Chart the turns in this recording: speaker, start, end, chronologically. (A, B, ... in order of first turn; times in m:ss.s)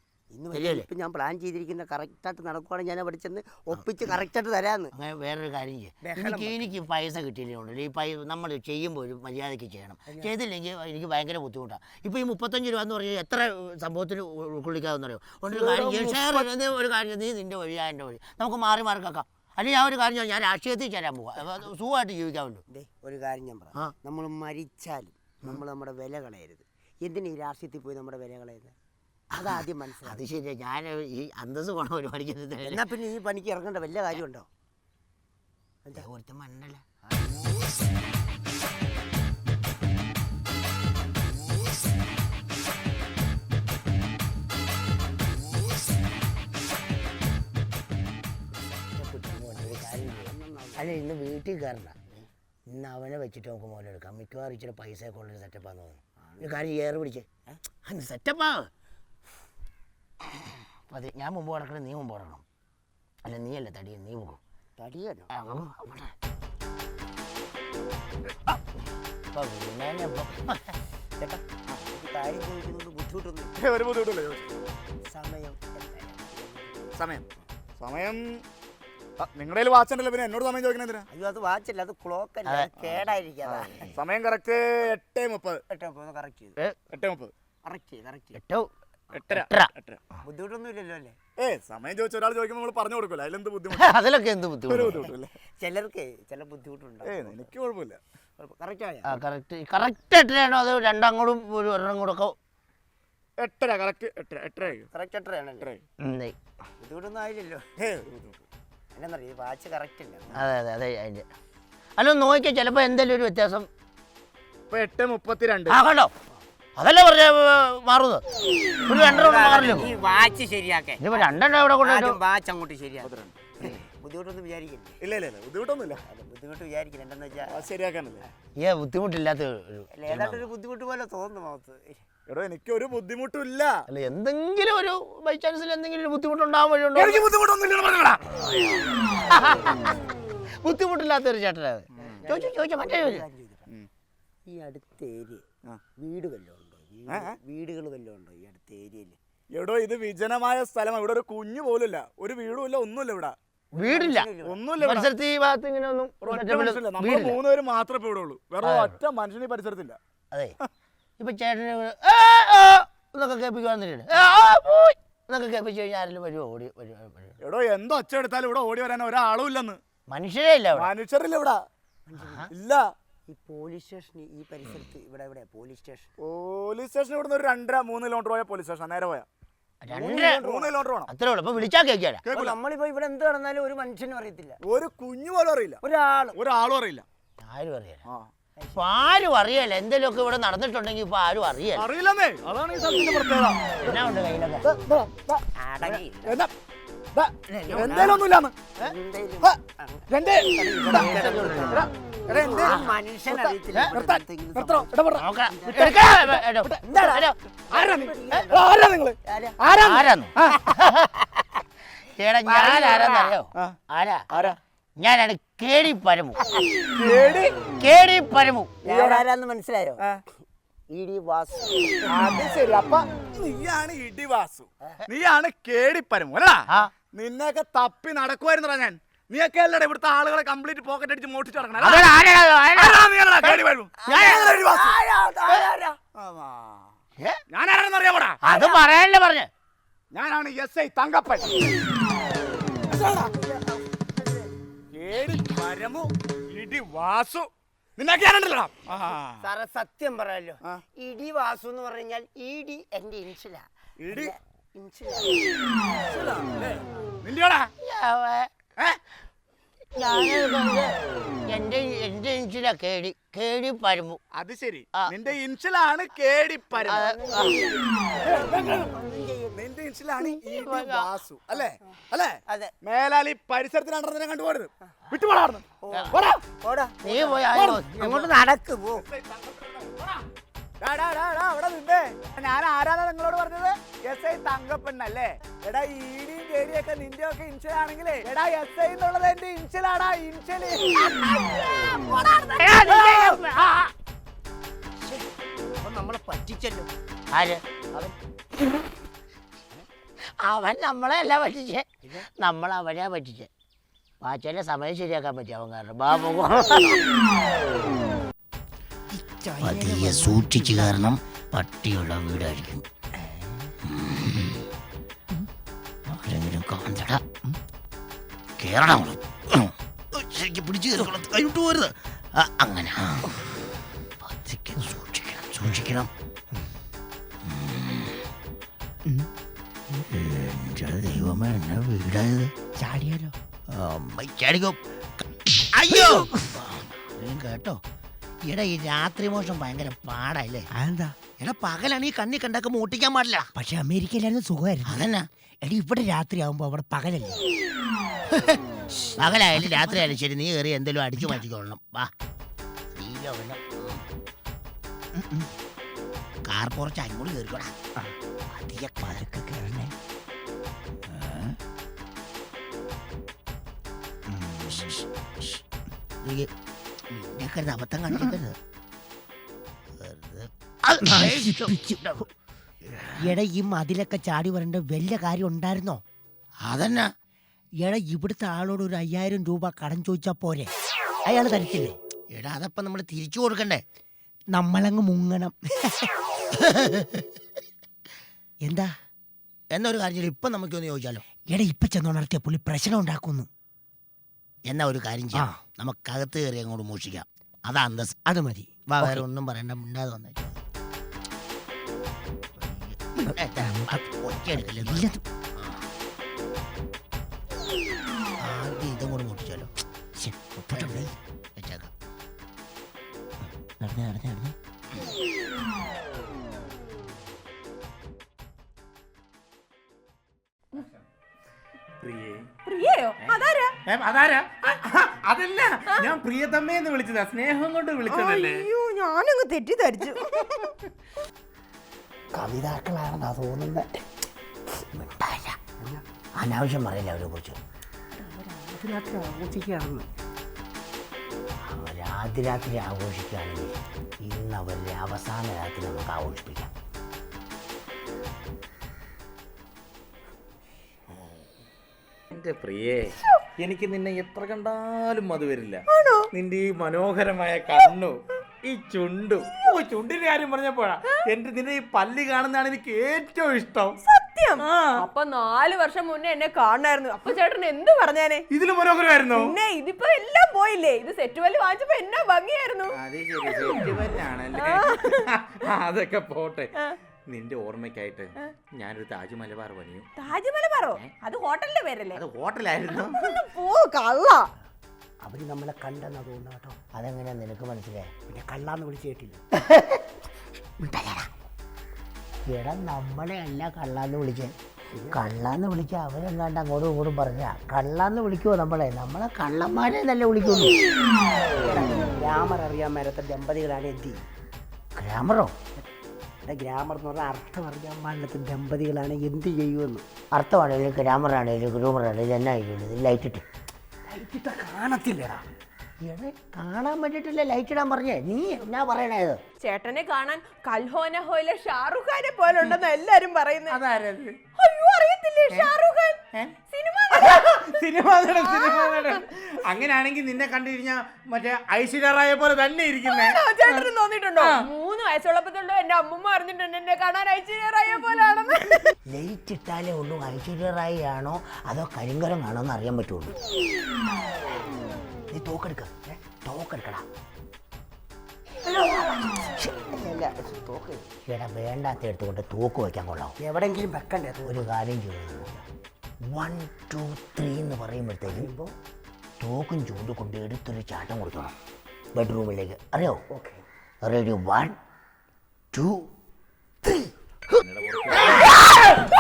0:00.3-0:04.9 A
0:00.5-0:00.9 B
0:04.9-0:22.6 B
0:06.0-0:06.8 A
0:15.5-0:16.5 A
0:22.7-0:28.8 A
0:29.4-0:30.2 A
0:29.4-0:32.9 B
0:32.6-0:34.5 A
0:35.9-0:36.8 B
0:37.0-0:37.5 A
0:48.5-0:50.9 A
0:49.2-0:52.1 B
0:52.7-0:57.3 B
0:56.2-0:56.6 A
0:57.8-0:58.7 B
1:00.9-1:02.4 B
1:03.2-1:04.4 B
1:04.8-1:05.3 A
1:05.3-1:06.1 B
1:09.3-1:10.7 B
1:11.9-1:13.6 A
1:13.6-1:14.5 C
1:15.1-1:17.0 A
1:16.9-1:17.2 C
1:17.8-1:18.4 C
1:19.2-1:21.1 C
1:21.1-1:23.9 A
1:22.5-1:23.2 B
1:23.5-1:25.6 C
1:25.7-1:26.6 A
1:26.9-1:27.3 C
1:27.7-1:28.4 A
1:28.4-1:28.7 B
1:29.1-1:30.0 C
1:29.3-1:29.7 B
1:30.2-1:31.2 A
1:31.4-1:33.9 C
1:33.8-1:35.1 B
1:34.7-1:35.4 C
1:34.9-1:37.5 A
1:37.0-1:38.0 C
1:38.4-1:39.1 A
1:39.1-1:42.3 B
1:43.4-1:44.9 C
1:44.6-1:45.7 A
1:46.0-1:46.4 B
1:46.8-1:50.5 A
1:50.3-1:51.3 B
1:52.0-1:53.7 B
1:54.7-1:55.8 C
1:55.7-1:56.1 B
1:56.8-1:58.2 B
1:58.9-1:59.9 B
1:59.1-2:05.0 A
2:01.0-2:02.2 B
2:03.0-2:03.4 C
2:05.0-2:06.0 C
2:06.0-2:07.7 A
2:07.5-2:08.3 C
2:08.6-2:10.5 B
2:09.9-2:12.0 A
2:12.3-2:13.8 C
2:13.9-2:17.3 B
2:17.0-2:18.2 C
2:18.3-2:20.0 B
2:20.6-2:23.2 B
2:22.0-2:23.7 A
2:24.5-2:25.4 A
2:26.0-2:29.2 A
2:27.1-2:27.4 C
2:29.5-2:33.4 C
2:33.7-2:34.6 A
2:33.8-2:34.3 B
2:34.4-2:35.1 C
2:34.8-2:37.4 B
2:36.2-2:40.0 C
2:38.6-2:39.0 B
2:41.2-2:47.4 B
2:47.4-2:49.8 C
2:50.1-2:50.9 B
2:50.8-2:51.6 C
2:52.1-2:52.5 A
2:52.2-2:52.5 B
2:52.5-2:52.9 C
2:53.3-2:56.1 A
2:56.2-2:59.3 C
2:59.8-3:00.4 B
2:59.9-3:00.8 A
3:00.4-3:01.1 C
3:01.1-3:02.2 B
3:02.2-3:02.6 C
3:02.3-3:04.6 A
3:04.6-3:05.8 C
3:05.8-3:06.4 A
3:06.3-3:07.1 C
3:07.4-3:08.0 B
3:08.8-3:11.9 B
3:11.8-3:13.7 C
3:13.8-3:14.7 B
3:14.6-3:16.5 C
3:15.6-3:16.5 A
3:17.1-3:18.7 C
3:17.5-3:18.3 B
3:18.8-3:20.1 A
3:20.1-3:25.2 C
3:20.7-3:24.9 A
3:20.9-3:21.9 B
3:22.6-3:22.9 B
3:25.2-3:27.4 B
3:25.5-3:26.2 A
3:25.7-3:27.2 C
3:26.9-3:28.7 A
3:27.7-3:30.7 C
3:29.3-3:29.6 A
3:29.8-3:31.1 B
3:32.1-3:34.3 B
3:32.4-3:33.4 A
3:34.3-3:34.6 C
3:35.0-3:36.4 B
3:37.0-3:37.6 C
3:37.8-3:38.7 B
3:38.8-3:40.0 A
3:38.9-3:39.2 C
3:40.9-3:42.0 A
3:42.1-3:46.6 C
3:47.2-3:52.1 C
3:51.8-3:53.6 B
3:52.8-3:55.0 C
3:54.0-3:56.0 A
3:54.1-3:54.5 B
3:56.2-3:56.9 C
3:57.5-3:58.4 C
3:58.4-3:59.5 B
3:58.5-3:58.9 A
4:00.1-4:01.7 C
4:02.9-4:04.5 A
4:04.9-4:09.4 C
4:09.4-4:15.4 A
4:14.0-4:14.3 C
4:15.9-4:17.7 C
4:17.8-4:19.0 B
4:20.0-4:21.0 B
4:21.5-4:24.2 B
4:24.3-4:27.1 C
4:26.7-4:29.6 A
4:26.9-4:27.6 B
4:28.2-4:28.8 C
4:29.5-4:36.3 C
4:30.2-4:31.1 B
4:32.5-4:32.7 A
4:35.8-4:39.1 A
4:37.0-4:38.3 B
4:38.9-4:40.2 C
4:40.8-4:50.9 C
4:51.1-4:53.9 B
4:52.0-4:53.4 A
4:55.0-4:55.3 A
4:55.8-4:56.9 A
4:57.3-4:57.6 B
5:00.4-5:01.9 B
5:02.4-5:03.5 B
5:04.2-5:07.0 B
5:09.1-5:10.9 D
5:09.6-5:12.8 B
5:13.9-5:14.6 B
5:16.1-5:17.2 B
5:18.6-5:23.4 B
5:24.2-5:26.1 B
5:27.5-5:28.2 B
5:29.9-5:32.5 B
5:32.8-5:33.4 D
5:33.7-5:37.8 B
5:38.5-5:40.7 B
5:40.7-5:41.2 D
5:41.4-5:43.5 B
5:43.5-5:45.1 D
5:44.8-5:45.3 B
5:45.6-5:47.4 D
5:49.2-5:52.1 B
5:49.6-5:50.0 D
5:52.9-5:54.0 B
5:55.2-5:55.5 D
5:56.5-5:57.8 B
5:58.6-5:59.2 B
5:58.6-5:59.9 D
6:01.1-6:01.6 B
6:04.3-6:05.6 B
6:06.2-6:06.5 B
6:07.1-6:08.6 B
6:10.0-6:12.2 B
6:11.0-6:12.0 D
6:12.9-6:13.4 B
6:13.2-6:16.0 D
6:16.6-6:17.1 B
6:17.8-6:20.7 D
6:21.2-6:22.0 D
6:22.3-6:23.8 B
6:24.5-6:26.1 D
6:26.7-6:27.2 B
6:28.6-6:28.9 D
6:29.7-6:31.2 B
6:31.5-6:33.5 D
6:34.7-6:38.2 B
6:35.3-6:35.6 D
6:38.3-6:39.2 D
6:38.9-6:40.6 B
6:42.6-6:45.8 B
6:44.8-6:45.2 D
6:48.4-6:49.7 B
6:50.3-6:51.1 D
6:50.5-6:51.9 B
6:53.8-6:54.6 B
7:02.0-7:02.5 E
7:02.7-7:03.7 F
7:03.2-7:08.7 E
7:08.1-7:10.7 F
7:12.3-7:14.0 A
7:14.9-7:15.6 B
7:16.4-7:17.6 B
7:18.2-7:18.5 F
7:18.5-7:20.1 A
7:21.7-7:26.7 B
7:32.3-7:44.0 E
7:35.9-7:36.3 F
7:44.0-7:48.5 F
7:44.6-7:45.1 E
7:48.5-7:49.6 E
7:49.3-7:53.0 F
7:52.9-7:56.7 E
7:54.5-7:55.2 F
7:57.3-8:00.1 E
8:00.2-8:02.2 F
8:02.1-8:03.4 E
8:02.9-8:04.5 F
8:05.2-8:06.8 A
8:07.0-8:08.1 B
8:08.3-8:09.4 A
8:09.6-8:10.0 B
8:10.8-8:11.3 B
8:12.5-8:14.5 B
8:14.9-8:15.2 A
8:15.1-8:20.7 B
8:21.6-8:24.2 A
8:25.0-8:25.5 B
8:26.4-8:30.0 A
8:30.4-8:33.4 B
8:34.1-8:35.4 A
8:36.0-8:39.4 B
8:39.6-8:43.8 F
8:43.7-8:44.4 E
8:44.6-8:46.2 F
8:46.7-8:47.5 F
8:47.1-8:54.6 E
8:48.4-8:49.2 F
8:53.0-8:59.0 F
8:59.1-9:03.4 B
9:05.3-9:07.0 B
9:08.6-9:11.1 A
9:11.3-9:13.4 B
9:13.4-9:14.7 A
9:14.5-9:15.5 B
9:16.3-9:18.5 B
9:18.2-9:18.8 A
9:19.4-9:21.5 B
9:22.2-9:23.2 B
9:23.3-9:23.6 A
9:24.0-9:24.8 B
9:25.7-9:26.1 B
9:27.6-9:28.9 E
9:28.1-9:28.5 A
9:28.2-9:28.5 B